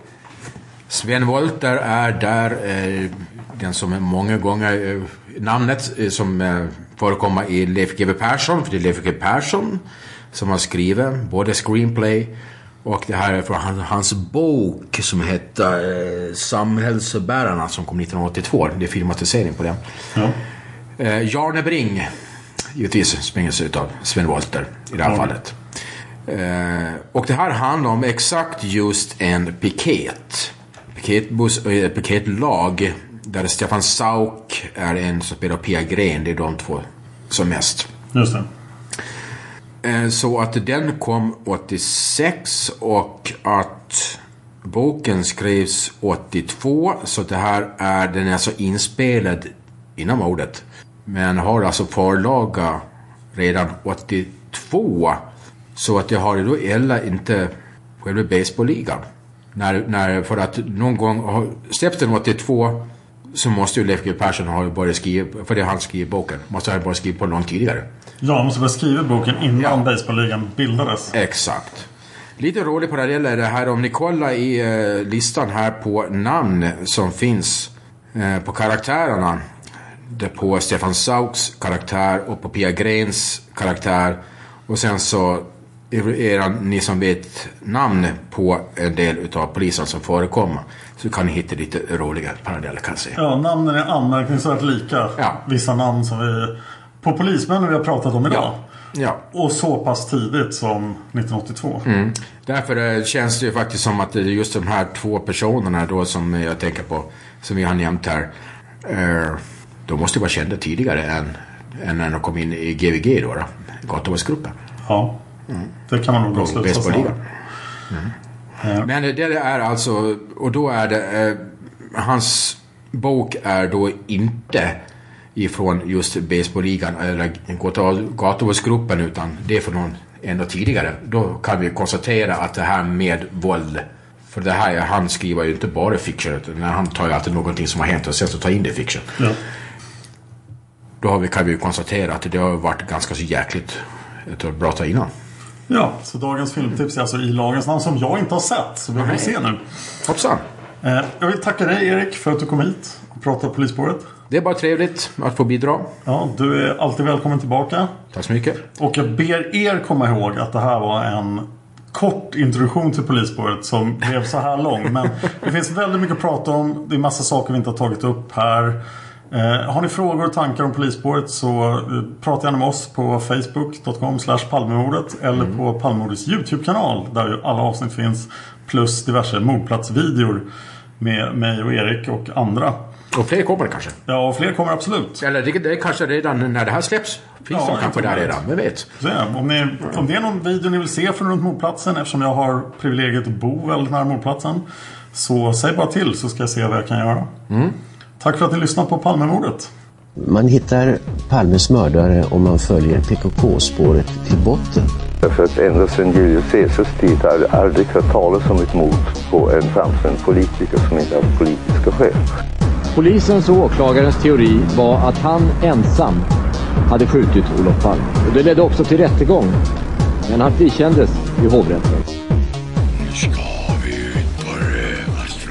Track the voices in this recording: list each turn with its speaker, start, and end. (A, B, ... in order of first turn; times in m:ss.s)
0:00.9-0:12.3 A
0:12.8-0:19.8 A
0:21.0-0:22.1 A
0:22.7-0:25.6 A
0:26.3-0:37.9 A
0:38.1-0:38.5 B
0:39.8-0:52.8 A
0:53.3-0:55.2 A
0:55.8-0:59.0 A
0:59.6-1:07.9 A
1:08.2-1:11.1 B
1:11.1-1:11.9 A
1:12.4-1:19.4 A
1:20.1-1:33.2 A
1:33.2-1:38.6 B
1:38.3-1:39.2 A
1:39.3-1:41.8 B
1:41.8-1:48.3 A
1:48.8-1:54.5 A
1:54.8-1:55.1 B
1:55.9-1:57.2 B
1:56.3-1:57.2 A
1:58.8-2:04.8 A
2:05.4-2:19.1 A
2:21.0-2:25.1 A
2:25.7-2:29.6 B
2:29.0-2:29.3 A
2:30.0-2:30.4 A
2:30.8-2:34.0 B
2:34.3-2:36.0 A
2:36.1-2:37.9 B
2:38.1-2:38.6 A
2:38.8-2:48.8 B
2:49.3-3:00.4 B
3:01.0-3:02.8 B
3:03.1-3:04.0 A
3:04.1-3:05.2 B
3:05.2-3:08.9 A
3:07.5-3:08.4 B
3:09.0-3:17.3 B
3:17.5-3:17.7 A
3:18.2-3:19.7 B
3:20.2-3:24.9 C
3:25.2-3:32.2 D
3:33.0-3:36.3 E
3:36.9-3:39.6 E
3:40.3-3:42.1 E